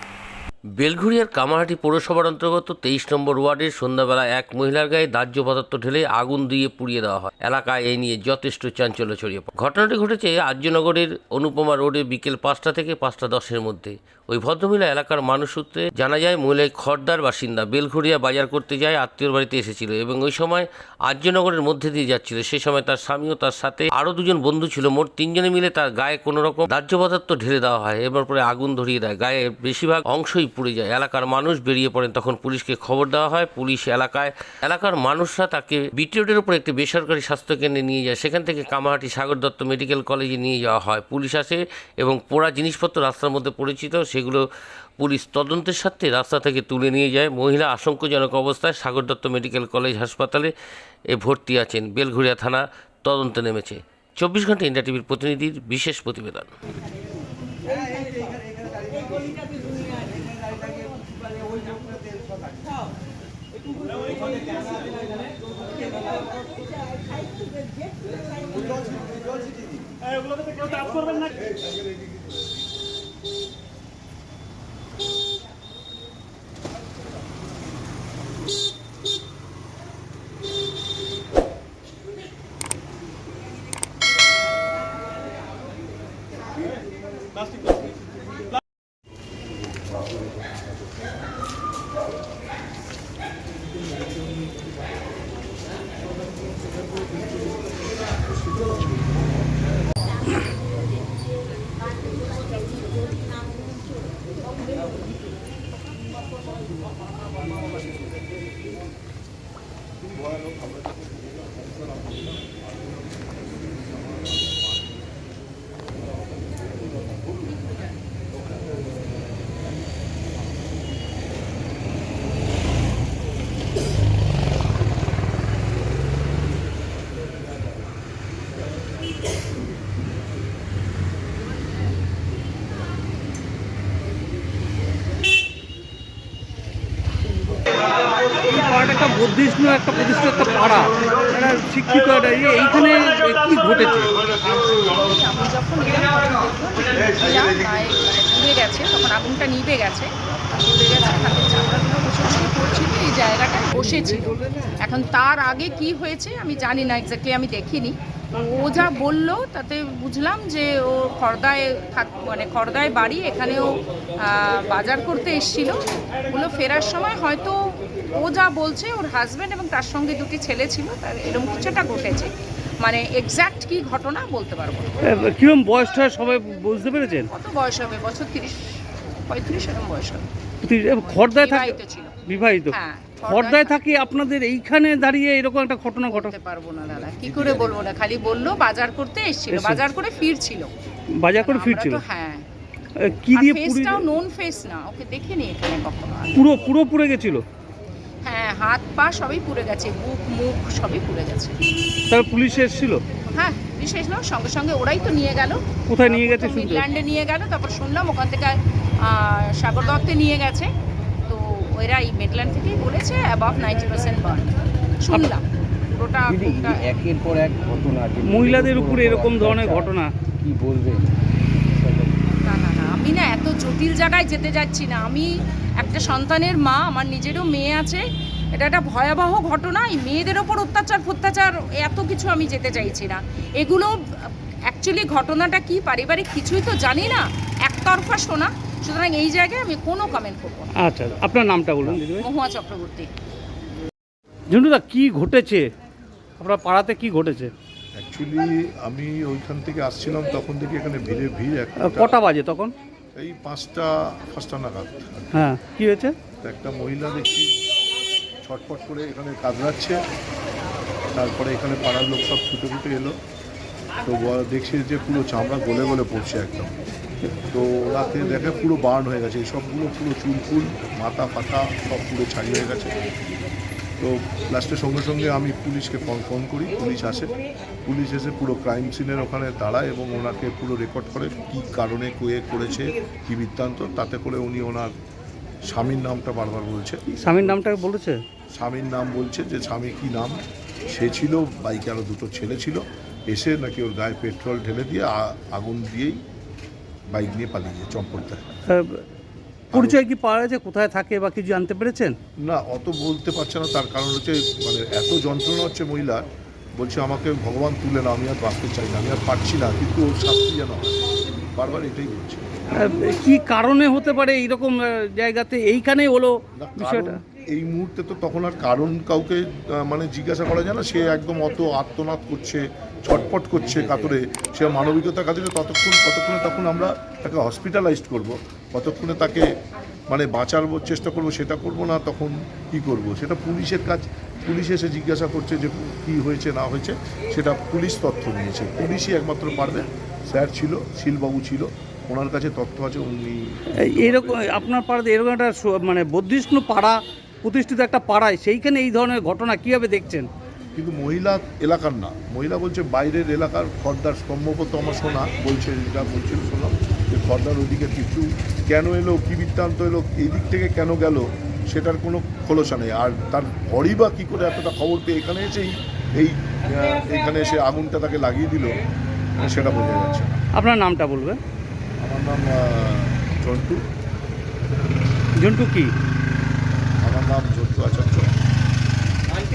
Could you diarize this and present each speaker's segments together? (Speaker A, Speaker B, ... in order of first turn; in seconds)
Speaker A: 0.8-44.4, 45.0-50.5, 51.1-56.5
Speaker B: 110.2-111.1, 112.0-112.3, 186.9-187.8, 248.0-252.2, 253.2-255.4, 256.4-257.6, 258.4-260.0, 261.1-263.1, 264.0-266.8, 267.5-272.9, 274.0-277.3, 277.9-284.9, 285.7-287.6, 288.6-296.2, 297.1-298.4, 299.7-300.0, 302.4-306.2, 306.8-311.0, 311.5-312.4, 316.5-329.4, 330.1-344.4, 350.7-368.8, 369.4-370.4, 372.0-373.8, 377.0-378.3
Speaker C: 138.5-144.1, 175.0-177.3, 180.6-181.7, 182.3-186.3, 189.5-189.8, 191.2-192.0, 193.0-194.1, 196.3-197.4, 202.1-203.0, 205.9-206.9, 218.2-220.1, 240.8-242.2, 244.5-245.7, 246.4-247.5, 251.8-252.7, 255.3-256.1, 287.1-288.2, 298.7-299.0, 299.7-302.2, 312.8-317.2, 343.8-350.3, 370.6-371.4, 375.4-375.9
Speaker D: 144.2-175.0, 177.3-180.3, 181.0-182.1, 182.7-183.8, 186.0-190.7, 191.4-192.4, 193.3-196.5, 198.2-201.6, 203.3-210.7, 211.3-216.9, 222.4-228.0, 228.5-240.7, 242.2-243.1
Speaker E: 216.3-221.0, 221.7-222.1